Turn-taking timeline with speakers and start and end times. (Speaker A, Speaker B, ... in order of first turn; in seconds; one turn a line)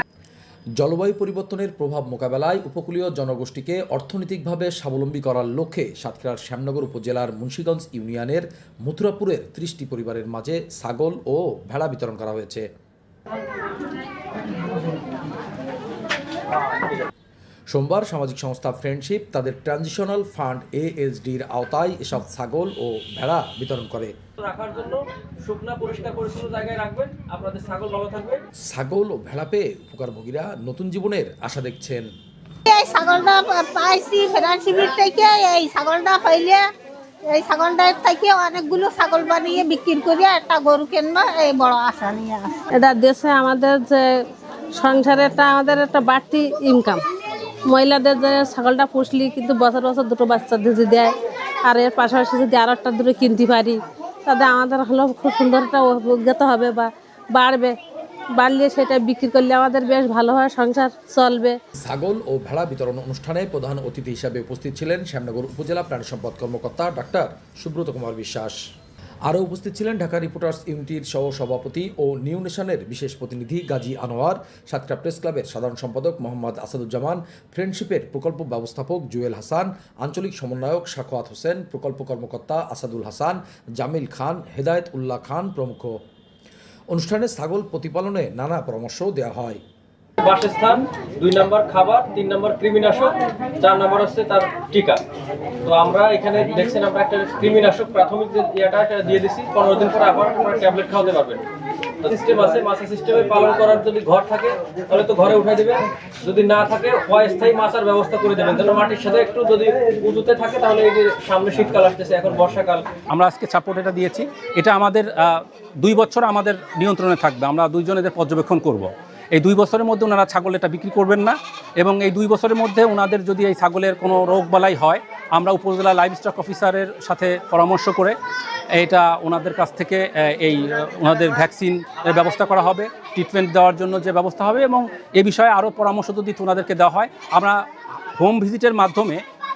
Speaker A: 0.8-12.6
Speaker B: 16.5-17.1
Speaker A: 17.7-24.1
Speaker B: 24.4-28.4
Speaker A: 28.7-32.1
Speaker C: 32.6-36.6
Speaker C: 37.3-42.6
Speaker D: 42.7-44.1
Speaker D: 44.8-47.0
Speaker D: 47.7-51.1
Speaker D: 51.6-57.7
Speaker D: 58.4-61.5
Speaker A: 61.8-68.5
Speaker A: 69.2-86.0
Speaker A: 86.9-89.6
Speaker B: 90.2-95.0
Speaker B: 95.6-101.4
Speaker B: 102.0-112.9
Speaker E: 113.1-128.2
Speaker E: 128.7-137.6
Speaker E: 138.2-139.2